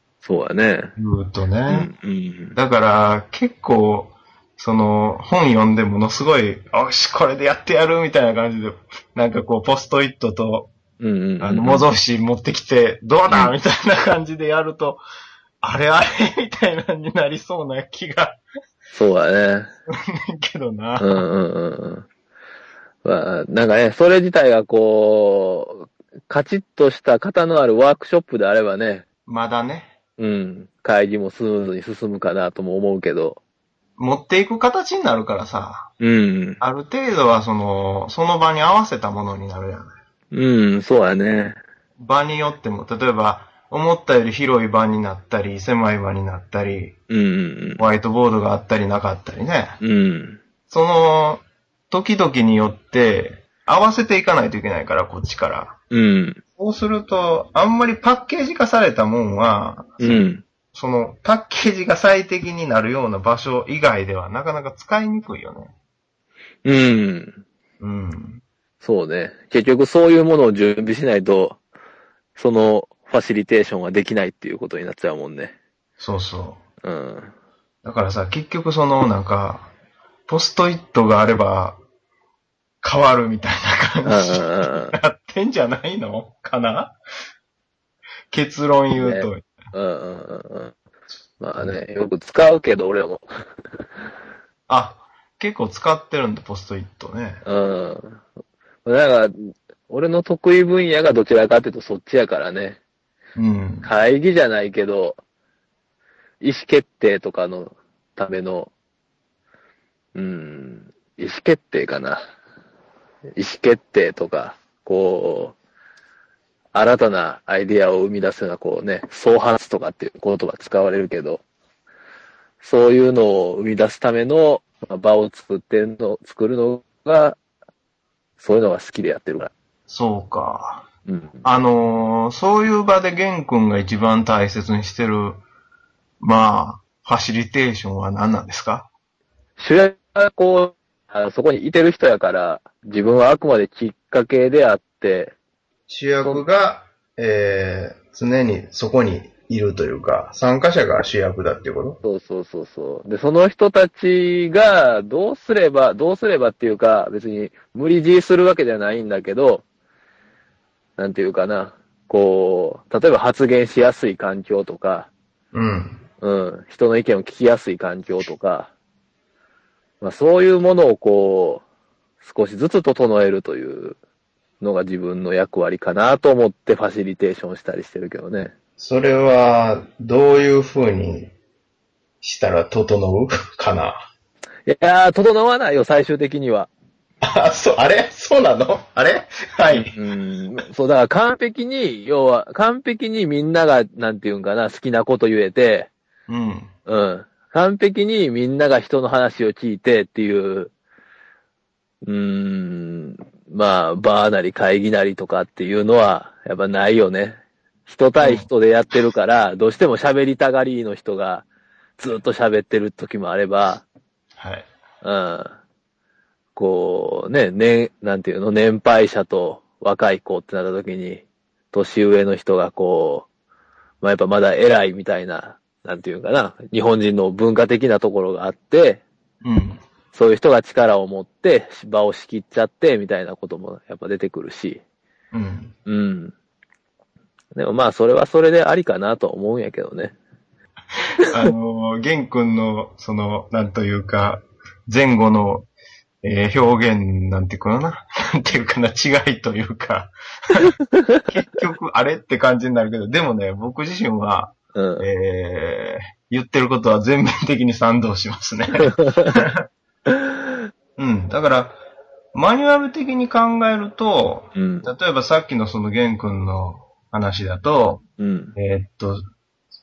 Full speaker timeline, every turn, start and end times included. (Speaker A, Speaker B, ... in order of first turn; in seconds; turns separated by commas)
Speaker A: 0.2-0.9, Speaker B: 1.0-1.9, Speaker A: 1.7-2.6, Speaker B: 2.5-10.7, Speaker A: 11.0-11.9, Speaker B: 11.4-15.0, Speaker A: 13.3-13.5, Speaker B: 15.6-18.4, Speaker A: 18.9-19.7, Speaker B: 19.9-21.2, Speaker A: 21.0-22.1, Speaker A: 23.0-29.0, Speaker B: 29.2-29.9, Speaker A: 30.2-33.4, Speaker B: 34.0-35.9, Speaker A: 36.0-36.6, Speaker B: 36.6-39.9, Speaker A: 40.3-41.6, Speaker B: 42.0-47.0, Speaker A: 47.1-47.8, Speaker B: 47.8-49.8, Speaker A: 49.8-50.4, Speaker B: 50.7-55.8, Speaker A: 55.9-56.4, Speaker B: 56.6-65.7, Speaker A: 60.0-60.4, Speaker A: 66.6-67.4, Speaker B: 67.8-68.4, Speaker A: 68.8-71.6, Speaker A: 72.3-75.5, Speaker B: 76.0-76.6, Speaker A: 76.8-77.3, Speaker B: 77.8-79.7, Speaker B: 80.3-81.8, Speaker B: 82.8-87.0, Speaker A: 84.0-85.0, Speaker B: 88.3-89.5, Speaker A: 88.9-90.7, Speaker A: 91.4-93.2, Speaker B: 94.7-97.4, Speaker A: 97.4-98.2, Speaker A: 98.8-102.8, Speaker B: 103.3-103.9, Speaker A: 103.8-105.2, Speaker A: 106.4-108.7, Speaker A: 110.1-112.2, Speaker A: 113.4-115.5, Speaker A: 116.7-121.4, Speaker A: 122.6-127.4, Speaker A: 128.4-129.5, Speaker B: 129.9-130.8, Speaker A: 131.1-131.4, Speaker B: 131.4-135.4, Speaker B: 136.2-138.9, Speaker A: 139.6-145.3, Speaker B: 145.9-152.0, Speaker A: 152.0-159.6, Speaker A: 161.0-165.1, Speaker B: 165.5-166.0, Speaker A: 166.2-168.7, Speaker A: 170.0-171.6, Speaker A: 172.2-174.0, Speaker A: 174.6-178.5, Speaker B: 178.8-181.3, Speaker B: 182.2-184.0, Speaker A: 184.7-186.7, Speaker B: 187.2-189.9, Speaker A: 189.7-195.9, Speaker B: 196.3-196.7, Speaker A: 196.9-200.7, Speaker A: 202.0-211.4, Speaker B: 208.2-208.5, Speaker A: 212.0-213.8, Speaker B: 214.4-214.7, Speaker A: 215.0-215.6, Speaker A: 216.6-223.3, Speaker A: 224.0-229.0, Speaker B: 229.4-229.8, Speaker A: 230.1-234.8, Speaker B: 235.3-235.7, Speaker A: 235.8-236.3, Speaker A: 237.5-240.2, Speaker B: 241.2-245.7, Speaker B: 246.2-250.7, Speaker B: 251.3-259.6, Speaker A: 254.7-255.1, Speaker A: 258.8-259.4, Speaker A: 260.1-260.5, Speaker B: 261.0-261.8, Speaker B: 262.3-268.0, Speaker A: 264.5-264.9, Speaker A: 268.2-268.6, Speaker B: 268.6-269.2